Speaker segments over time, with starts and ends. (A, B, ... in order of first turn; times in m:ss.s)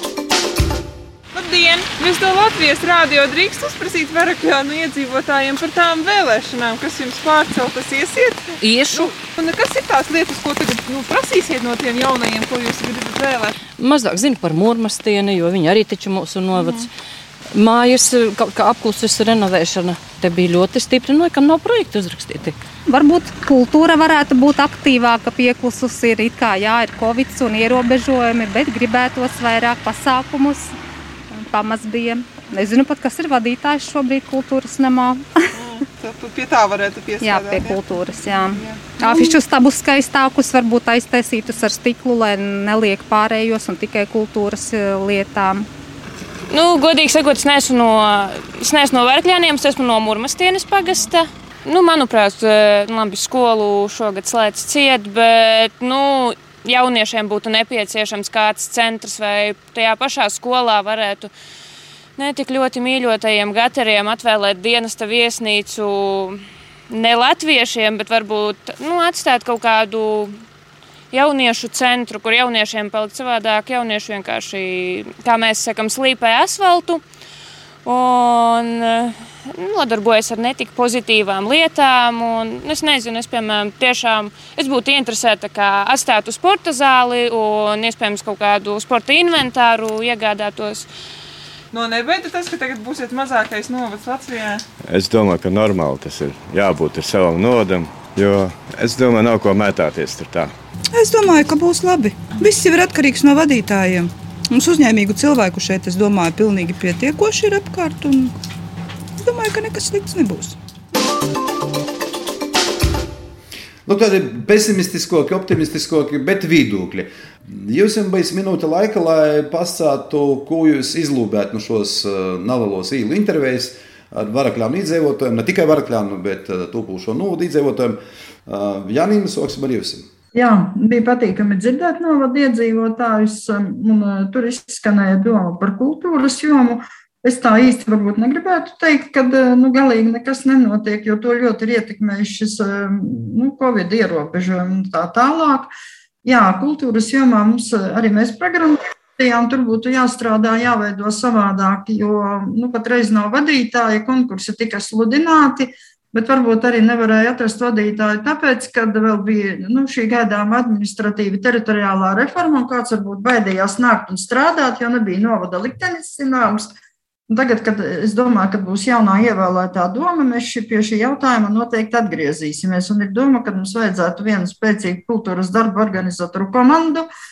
0:01.3-0:13.5 A
0:08.6-0:09.1 B
0:13.8-0:16.9 B
0:16.6-0:16.8 A
0:17.5-0:22.6 B
0:22.9-0:30.7 C
0:31.3-0:35.2 C
0:35.5-0:37.8 A
0:37.2-0:45.6 C
0:38.5-0:39.4 A
0:46.5-1:01.3 D
1:02.2-1:06.4 D
1:06.9-1:10.4 D
1:11.1-1:17.0 D
1:17.8-1:30.9 D
1:31.7-1:34.6 A
1:34.8-1:40.5 E
1:40.9-1:48.3 F
1:49.2-1:50.6 F
1:53.8-2:10.1 G
2:10.3-2:25.7 H
2:26.2-2:46.7 H
2:47.3-2:57.1 H